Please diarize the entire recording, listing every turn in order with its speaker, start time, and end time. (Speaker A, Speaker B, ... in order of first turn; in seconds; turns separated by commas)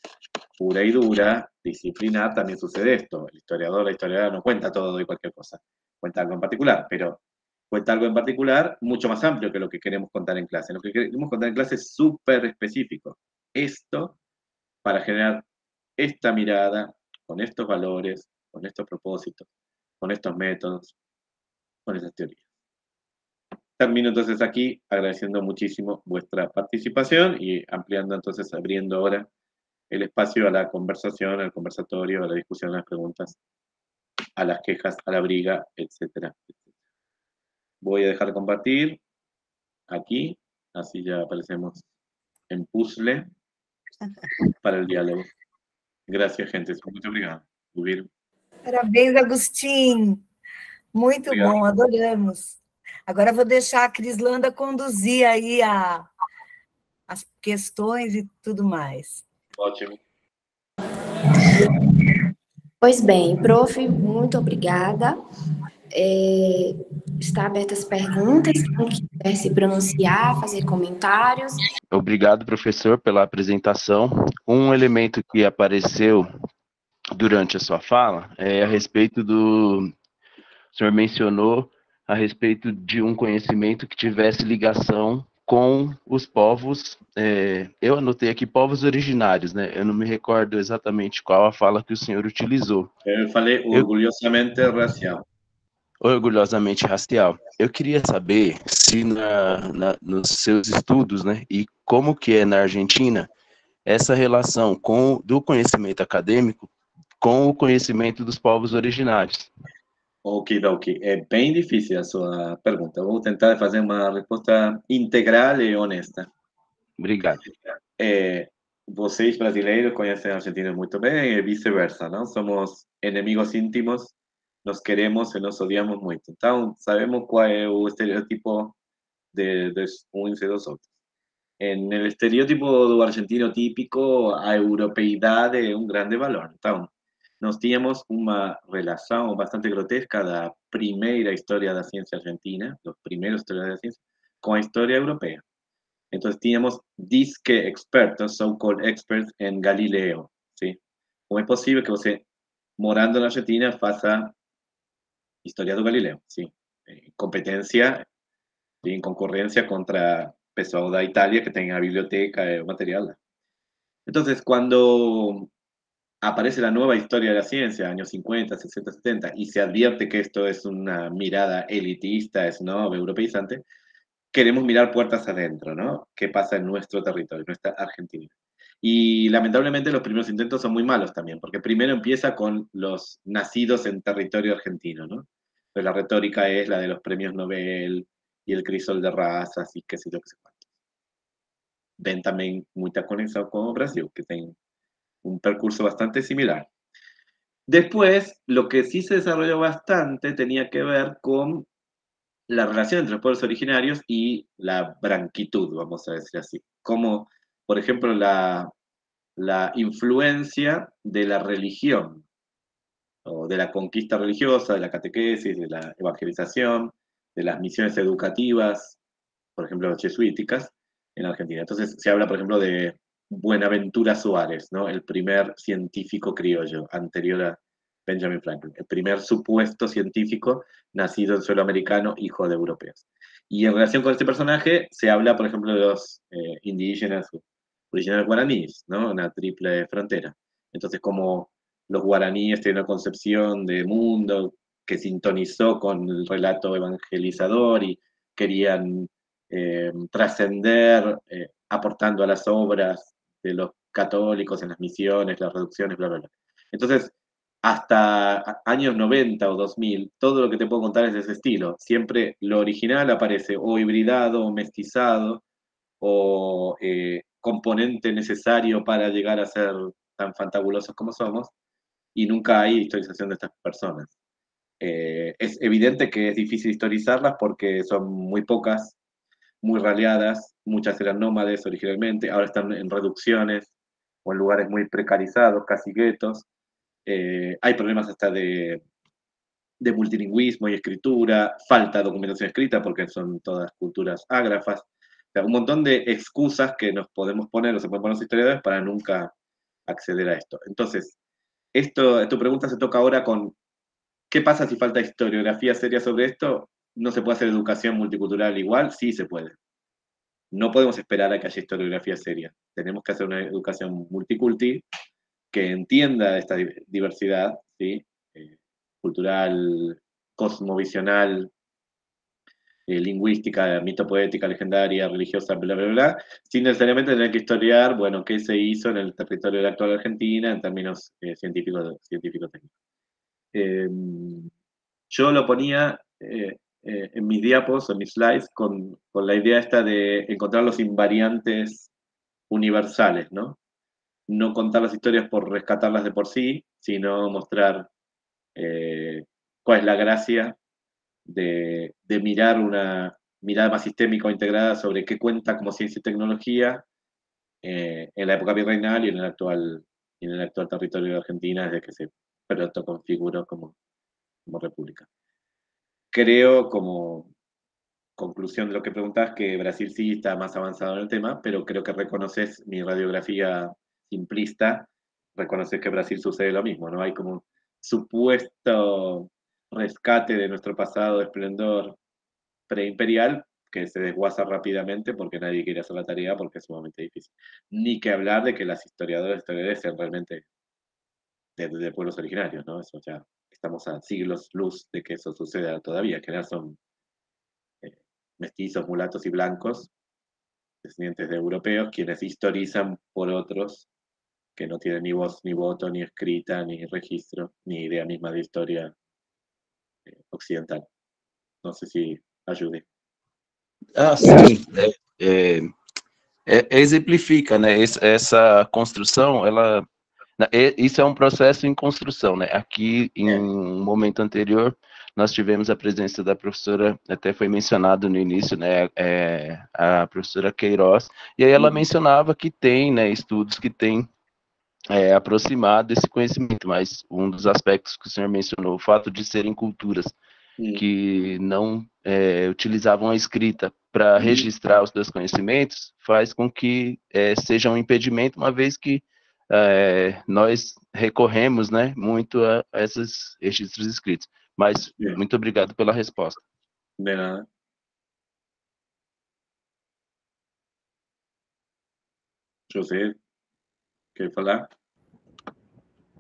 Speaker A: 0.6-14.2, Speaker A: 14.8-15.5, Speaker A: 16.0-19.5, Speaker A: 20.0-20.9, Speaker A: 21.9-22.4, Speaker A: 23.8-29.3, Speaker A: 29.9-33.4, Speaker A: 34.4-36.5, Speaker A: 37.8-39.0, Speaker A: 39.9-41.8, Speaker A: 42.5-43.3, Speaker A: 44.6-45.3, Speaker A: 46.1-48.1, Speaker B: 48.6-50.2, Speaker B: 50.9-56.1, Speaker A: 51.3-51.6, Speaker B: 57.1-59.2, Speaker A: 59.5-60.0, Speaker C: 62.8-65.2, Speaker C: 65.9-71.6, Speaker D: 71.9-76.3, Speaker D: 77.1-79.9, Speaker D: 80.7-92.9, Speaker A: 93.0-95.2, Speaker D: 96.0-103.3, Speaker D: 103.9-109.5, Speaker A: 110.2-116.3, Speaker D: 117.0-117.4, Speaker A: 118.0-124.1, Speaker A: 124.6-128.7, Speaker A: 129.3-130.9, Speaker A: 131.6-136.9, Speaker A: 137.4-145.4, Speaker A: 146.1-150.8, Speaker A: 151.3-152.2, Speaker A: 152.8-154.3, Speaker A: 155.4-158.1, Speaker A: 158.8-163.2, Speaker A: 164.1-165.5, Speaker A: 166.2-173.6, Speaker A: 174.3-190.6, Speaker A: 192.0-194.5, Speaker A: 195.2-196.7, Speaker A: 197.7-201.7, Speaker A: 202.5-208.7, Speaker A: 209.4-212.2, Speaker A: 213.2-219.0, Speaker A: 219.6-257.1, Speaker A: 257.6-265.4, Speaker A: 266.0-271.5, Speaker A: 272.1-274.1, Speaker A: 274.8-279.0, Speaker A: 279.6-283.7, Speaker A: 284.2-286.5, Speaker A: 287.1-288.8, Speaker A: 289.8-299.3, Speaker A: 299.9-301.2, Speaker A: 301.8-303.5, Speaker A: 304.3-309.6, Speaker A: 310.5-314.8, Speaker A: 315.5-321.5, Speaker A: 322.9-332.7, Speaker A: 333.5-334.5, Speaker A: 335.1-341.9, Speaker A: 342.5-343.6, Speaker A: 344.3-347.9, Speaker A: 348.5-350.6, Speaker A: 351.2-356.8, Speaker A: 357.6-363.8, Speaker A: 364.5-365.1, Speaker A: 366.1-367.3, Speaker A: 368.2-382.0, Speaker A: 382.7-390.4, Speaker A: 391.6-396.8, Speaker A: 397.8-399.9, Speaker A: 400.8-403.9, Speaker A: 404.6-408.9, Speaker A: 410.2-410.9, Speaker A: 411.6-412.8, Speaker D: 414.0-415.7, Speaker D: 416.5-419.9, Speaker D: 420.4-434.1, Speaker A: 431.6-431.8, Speaker D: 434.9-440.1, Speaker A: 440.6-440.8, Speaker D: 440.8-456.4, Speaker A: 444.2-444.5, Speaker A: 457.0-457.5, Speaker A: 462.7-463.2, Speaker A: 464.1-464.7